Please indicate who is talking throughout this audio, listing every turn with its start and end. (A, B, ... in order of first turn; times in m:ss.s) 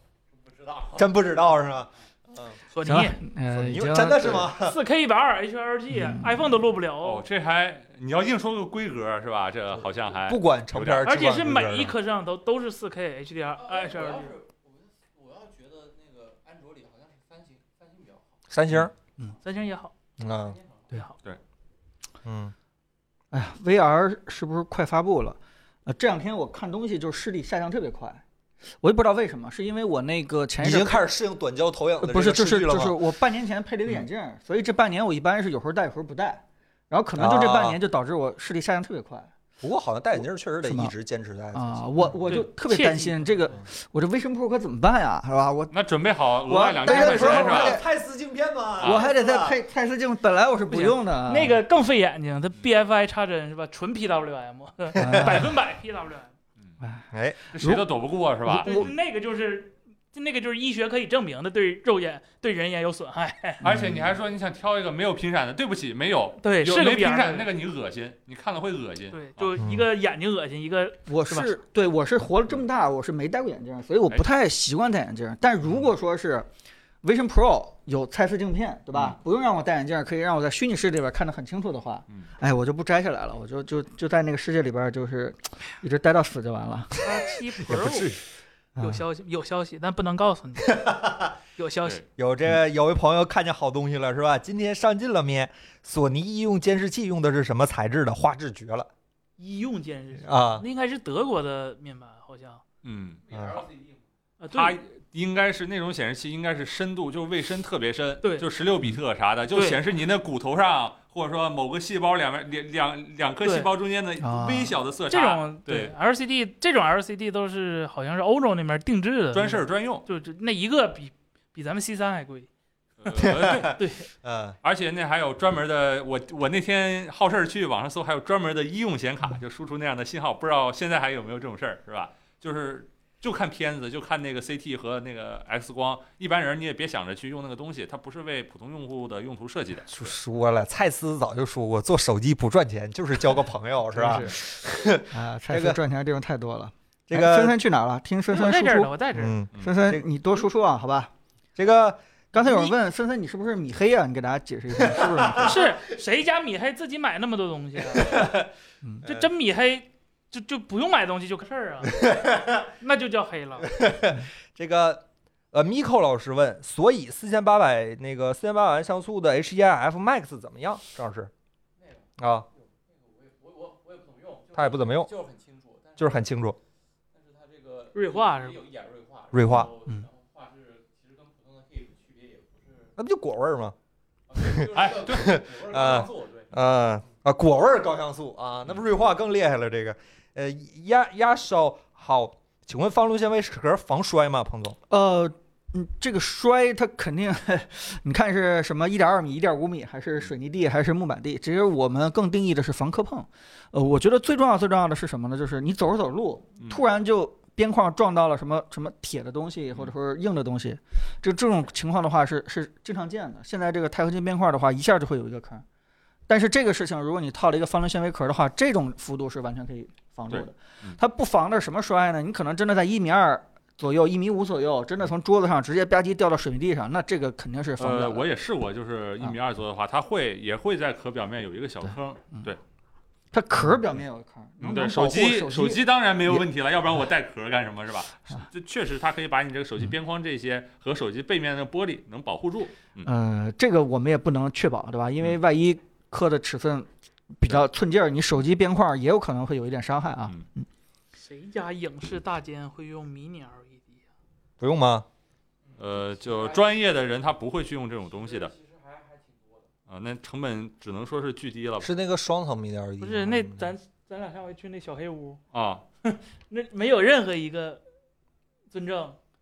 0:00.4-0:01.1 A
0:01.0-0:02.6 B
0:02.7-0:03.2 C
0:02.8-0:04.5 D
0:03.5-0:04.8 B
0:04.6-0:07.2 C
0:05.9-0:06.3 D
0:07.0-0:11.1 E
0:10.2-0:11.9 B
0:11.0-0:14.4 C
0:13.6-0:18.4 A
0:18.5-0:18.9 B
0:19.4-0:19.9 C
0:20.2-0:20.6 B
0:20.5-0:20.9 A
0:22.2-0:22.5 B
0:23.3-0:28.2 D
0:28.8-0:31.0 D
0:30.6-0:33.0 B
0:32.0-0:39.3 D
0:37.2-0:37.8 B
0:39.6-0:42.4 B
0:40.6-0:40.9 D
0:41.5-0:45.7 D
0:42.3-0:43.3 C
0:45.7-0:47.8 E
0:46.4-0:47.8 D
0:46.8-0:49.6 B
0:48.8-0:49.1 E
0:48.8-0:51.6 D
0:50.7-0:56.3 C
0:55.0-0:55.5 D
0:56.8-0:57.8 D
0:57.1-0:57.4 B
0:57.5-0:58.9 E
0:58.5-0:58.9 D
0:58.6-1:03.6 C
1:03.6-1:04.0 B
1:03.6-1:09.6 E
1:06.4-1:07.5 C
1:09.1-1:11.6 C
1:09.6-1:09.9 B
1:11.1-1:16.5 D
1:17.0-1:27.0 D
1:27.0-1:28.2 C
1:27.6-1:28.2 B
1:28.8-1:29.0 D
1:28.8-1:30.9 C
1:30.9-1:31.3 B
1:31.6-1:32.0 C
1:32.2-1:38.9 B
1:39.4-1:42.6 C
1:40.2-1:40.6 B
1:42.8-1:43.2 E
1:43.3-1:44.0 A
1:43.3-1:43.7 B
1:44.4-1:44.8 C
1:44.5-1:55.9 E
1:49.5-1:49.8 C
1:53.4-1:53.7 C
1:54.2-1:54.8 D
1:55.1-2:02.5 C
1:59.3-2:00.0 E
2:03.0-2:03.8 E
2:03.2-2:04.6 B
2:03.4-2:04.1 C
2:04.6-2:19.9 E
2:19.9-2:25.8 B
2:24.0-2:24.4 D
2:25.1-2:28.9 D
2:27.1-2:27.6 B
2:28.3-2:29.4 C
2:29.2-2:30.0 B
2:29.5-2:31.1 D
2:31.6-2:32.0 B
2:32.3-2:35.6 D
2:32.4-2:32.7 C
2:34.8-2:35.6 B
2:35.4-2:38.3 C
2:39.0-2:39.3 B
2:39.0-2:43.8 C
2:42.0-2:42.6 B
2:43.7-2:51.3 B
2:51.8-2:52.1 A
2:52.2-2:52.5 B
2:52.6-2:56.3 A
2:54.5-2:55.1 B
2:56.0-2:56.6 B
2:57.1-3:02.9 A
2:57.9-2:58.6 C
2:59.3-2:59.7 B
3:03.0-3:03.8 B
3:04.3-3:06.5 A
3:04.5-3:14.8 B
3:04.7-3:05.4 E
3:14.9-3:35.6 D
3:36.3-3:48.3 D
3:40.3-3:41.0 E
3:47.8-3:52.6 E
3:51.9-3:52.5 D
3:53.3-3:56.4 D
3:54.6-4:03.1 E
4:03.0-4:06.9 D
4:07.4-4:10.7 D
4:11.2-4:14.0 C
4:14.6-4:15.1 B
4:15.7-4:16.6 A
4:15.8-4:18.5 E
4:18.2-4:19.7 A
4:19.9-4:21.9 E
4:21.8-4:23.7 B
4:23.0-4:25.4 C
4:25.5-4:25.8 E
4:26.0-4:27.8 C
4:28.7-4:29.2 C